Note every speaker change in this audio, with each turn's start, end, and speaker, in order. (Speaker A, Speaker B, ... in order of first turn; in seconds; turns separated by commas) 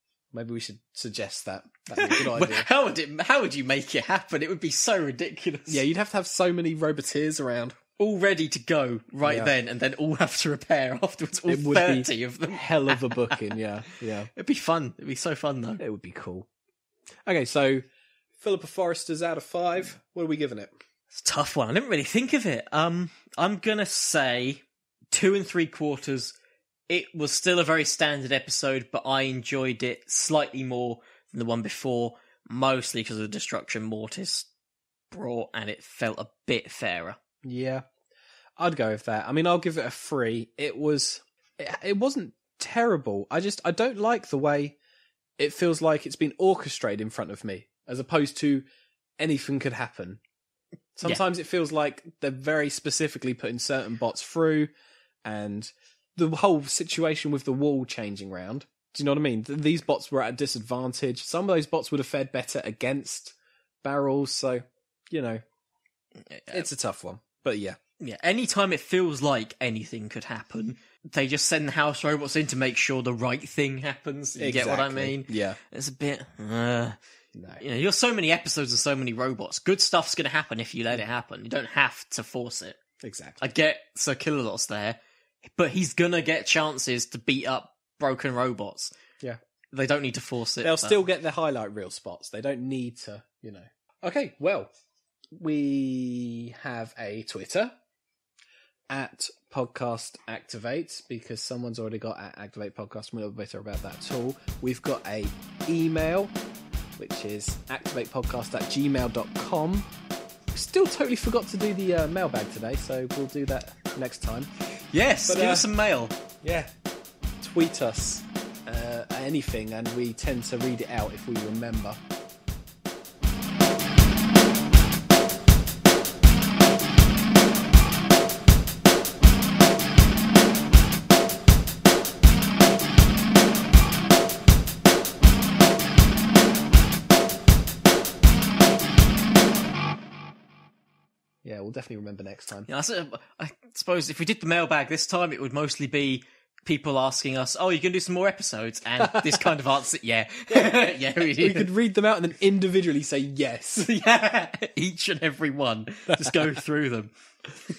Speaker A: 0.3-2.7, Speaker B: 2.0-5.8, Speaker A: 5.7-7.8, Speaker B: 8.0-13.5, Speaker A: 9.2-9.6, Speaker A: 11.5-14.3, Speaker B: 14.3-15.8, Speaker A: 15.8-16.5, Speaker A: 17.3-17.9, Speaker A: 18.4-20.7, Speaker B: 21.1-26.3, Speaker B: 26.9-34.5, Speaker B: 35.1-37.2, Speaker A: 37.4-37.9, Speaker A: 38.6-44.8, Speaker A: 45.4-48.7, Speaker A: 49.2-50.2, Speaker A: 51.0-54.7, Speaker A: 55.2-65.4, Speaker B: 66.2-66.7, Speaker A: 66.5-67.8, Speaker B: 68.0-77.0, Speaker A: 74.4-75.6, Speaker A: 77.3-77.6, Speaker B: 77.6-82.8, Speaker A: 83.0-83.4, Speaker B: 83.4-88.9, Speaker B: 89.7-91.0, Speaker A: 90.6-94.7, Speaker A: 95.3-97.7, Speaker A: 98.9-106.3, Speaker A: 107.0-109.9, Speaker A: 110.5-114.5, Speaker B: 114.9-116.2, Speaker A: 115.2-115.7, Speaker A: 116.4-116.7, Speaker A: 117.4-122.0, Speaker A: 141.4-142.7, Speaker B: 142.7-151.7, Speaker A: 149.0-149.5, Speaker A: 150.5-153.9, Speaker B: 153.8-157.1, Speaker A: 156.1-156.4